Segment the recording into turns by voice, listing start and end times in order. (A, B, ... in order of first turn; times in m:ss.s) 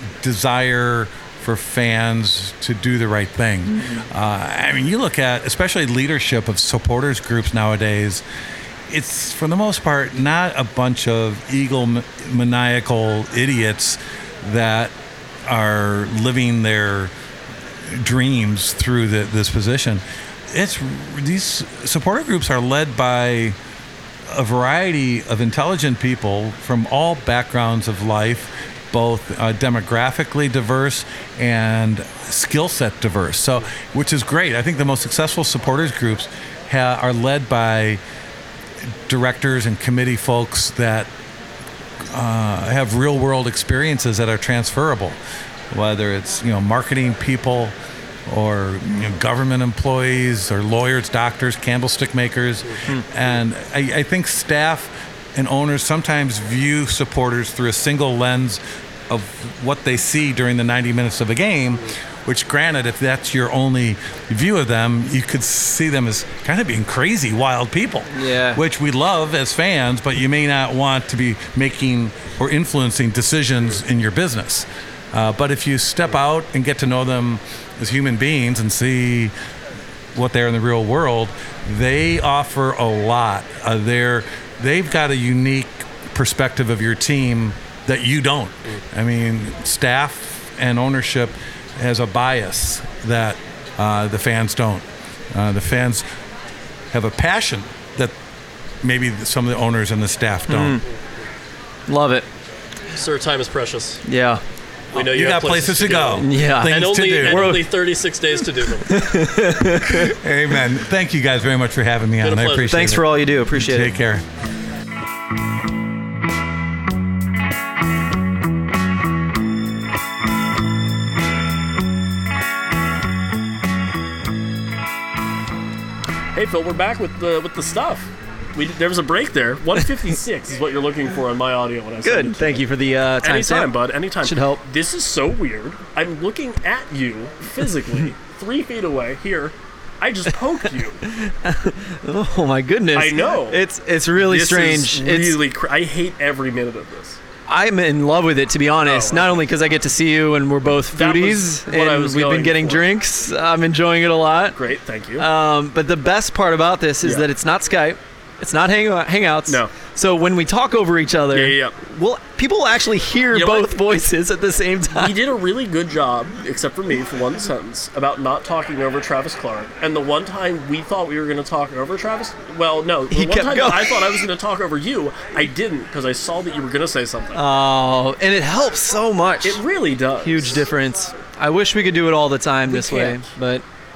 0:00.2-0:08.2 A
0:08.9-0:14.9 A
0:15.4-0:17.1 A
0:17.8-0:23.6 A
0:24.3-0:38.0 A
0:38.8-0:41.1 A
0:42.0-0:45.2 A
0:45.7-0:47.7 A
0:48.2-1:19.3 A
1:08.1-1:08.6 B
1:20.1-1:36.0 A
1:36.9-1:38.1 A
1:38.8-1:40.8 A
1:40.5-1:40.8 B
1:41.9-1:42.2 B
1:43.0-1:44.0 C
1:44.1-1:44.4 B
1:44.9-1:48.9 C
1:45.0-1:47.5 A
1:46.2-1:47.6 B
1:48.9-1:50.1 B
1:49.9-1:54.2 A
1:52.2-1:52.9 C
1:52.7-1:53.9 B
2:06.3-2:12.7 C
2:12.0-2:14.6 B
2:13.2-2:21.0 C
2:21.0-2:25.4 B
2:23.0-2:23.6 C
2:24.2-2:27.2 C
2:27.5-2:34.6 B
2:28.8-2:29.5 C
2:30.9-2:32.9 C
2:34.6-2:35.2 C
2:35.2-2:45.2 B
2:39.5-2:39.7 C
2:41.3-2:41.8 C
2:43.3-2:43.7 C
2:45.0-2:57.4 C
2:53.1-2:54.2 B
2:57.4-2:59.6 B
2:59.4-3:00.6 C
3:00.2-3:03.6 B
3:02.7-3:03.2 C